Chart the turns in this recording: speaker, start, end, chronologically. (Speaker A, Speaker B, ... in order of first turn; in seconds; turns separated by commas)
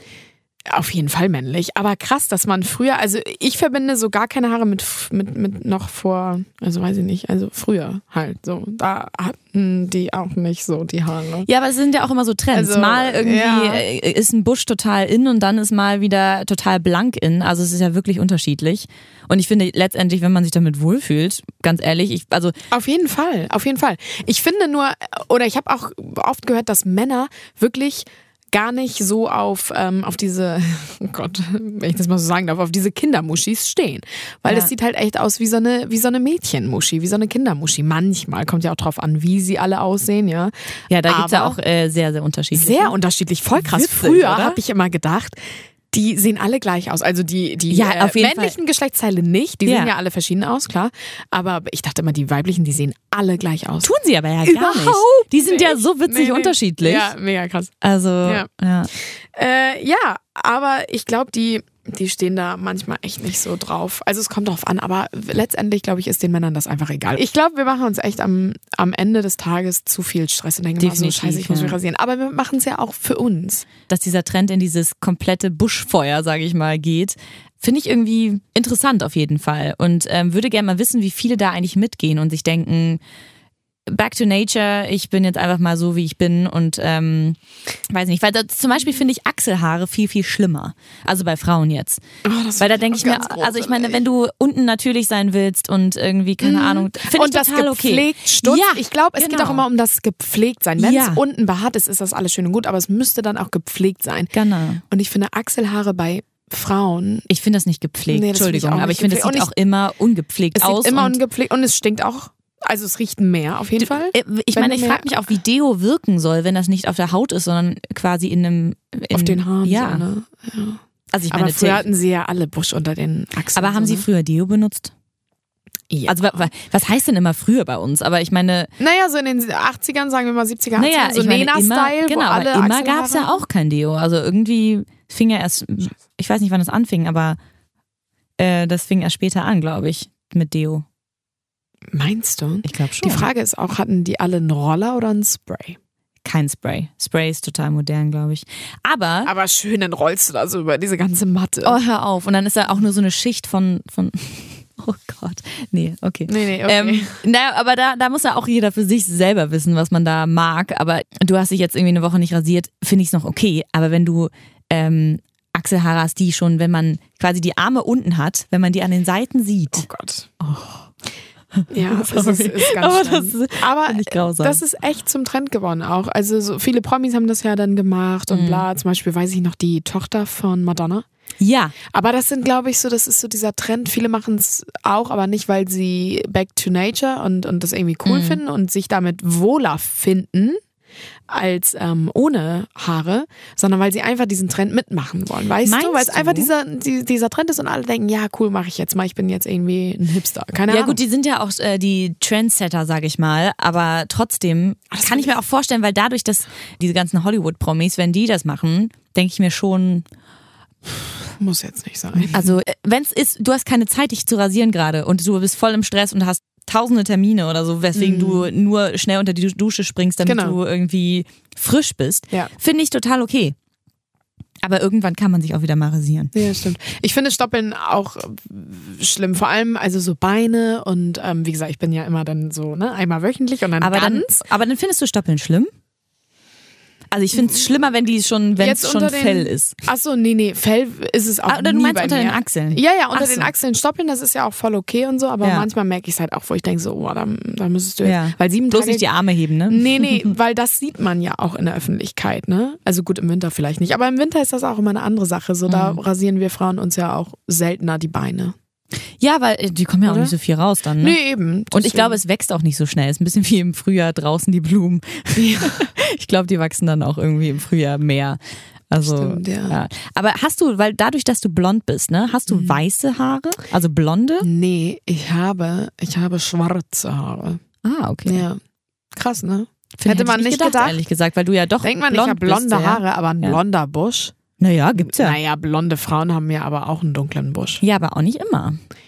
Speaker A: 0.7-11.5, Speaker B: 11.5-22.6, Speaker A: 12.5-13.8, Speaker A: 22.7-40.5, Speaker B: 40.9-43.0, Speaker A: 41.1-41.6, Speaker A: 42.5-45.4, Speaker B: 43.6-44.6, Speaker A: 45.9-53.9, Speaker B: 47.7-48.6, Speaker B: 49.7-49.9, Speaker B: 53.8-57.1, Speaker A: 54.4-57.7, Speaker B: 57.8-58.9, Speaker A: 59.3-73.7, Speaker B: 70.8-71.8, Speaker B: 73.9-83.0, Speaker B: 83.9-87.4, Speaker B: 87.9-92.0, Speaker A: 92.2-94.0, Speaker B: 92.6-99.6, Speaker A: 96.4-104.3, Speaker B: 100.8-101.2, Speaker B: 104.3-104.8, Speaker A: 104.9-107.3, Speaker B: 107.3-111.2, Speaker A: 108.1-109.5, Speaker A: 110.5-115.1, Speaker B: 113.8-120.1, Speaker A: 119.1-124.1, Speaker B: 121.1-121.9, Speaker B: 123.5-124.9, Speaker A: 125.9-126.5, Speaker B: 126.1-128.7, Speaker A: 128.8-133.4, Speaker B: 130.8-137.4, Speaker B: 138.4-140.8, Speaker A: 141.9-145.8, Speaker B: 142.7-143.3, Speaker B: 146.2-149.3, Speaker A: 149.3-151.8, Speaker B: 151.6-169.9, Speaker A: 156.3-157.2, Speaker A: 169.7-170.3, Speaker B: 170.4-170.9, Speaker B: 171.6-174.6, Speaker A: 171.7-181.1, Speaker B: 178.3-178.6, Speaker B: 181.4-181.8, Speaker A: 181.9-190.6, Speaker B: 188.1-188.4, Speaker A: 191.3-201.0, Speaker B: 195.7-196.5, Speaker B: 200.7-210.1, Speaker A: 204.9-205.3, Speaker A: 211.4-212.6, Speaker B: 212.3-223.6, Speaker A: 217.9-218.5, Speaker A: 220.2-220.6, Speaker B: 224.6-226.3, Speaker A: 226.3-234.4, Speaker B: 233.8-235.7, Speaker B: 237.1-239.8, Speaker A: 237.3-237.7, Speaker A: 238.6-249.1, Speaker B: 241.5-243.5, Speaker B: 245.4-245.7, Speaker B: 248.0-250.3, Speaker A: 249.7-258.6, Speaker B: 255.7-256.0, Speaker B: 259.2-261.2, Speaker A: 260.1-260.3, Speaker A: 261.0-262.2, Speaker B: 261.7-268.4, Speaker A: 265.4-265.9, Speaker B: 268.9-274.5, Speaker A: 269.0-269.8, Speaker A: 272.5-272.8, Speaker A: 274.4-277.6, Speaker B: 277.8-278.5, Speaker A: 278.2-278.6, Speaker A: 279.1-281.0, Speaker B: 280.0-283.6, Speaker A: 281.8-284.4, Speaker B: 284.6-285.4, Speaker A: 285.0-287.8, Speaker B: 287.8-288.8